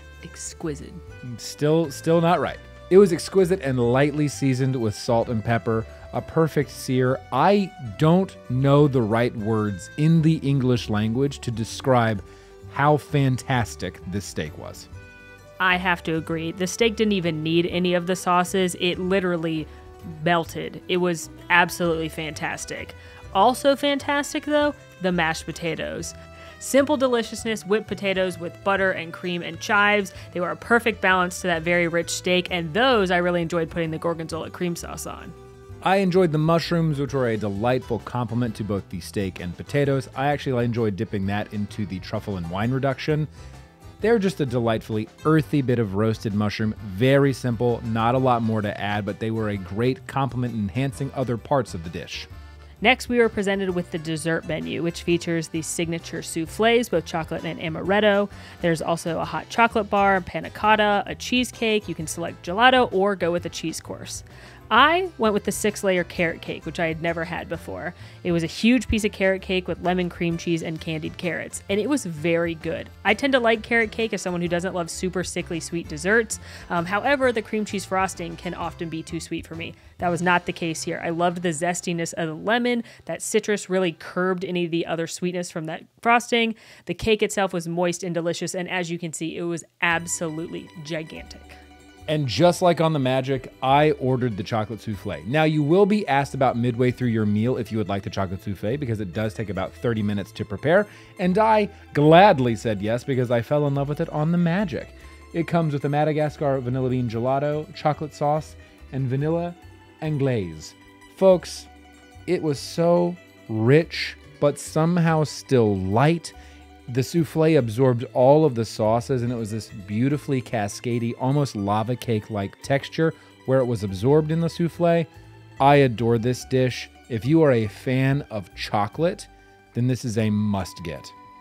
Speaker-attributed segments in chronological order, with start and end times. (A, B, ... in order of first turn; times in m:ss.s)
0:00.2-0:01.0 A
0:01.2-0:14.9 B
0:15.6-0:35.3 A
0:35.8-0:43.3 B
0:44.0-0:52.3 B
0:52.8-1:31.6 A
1:32.1-1:51.7 B
1:52.3-1:56.3 B
1:56.9-2:05.1 B
2:05.6-2:11.1 B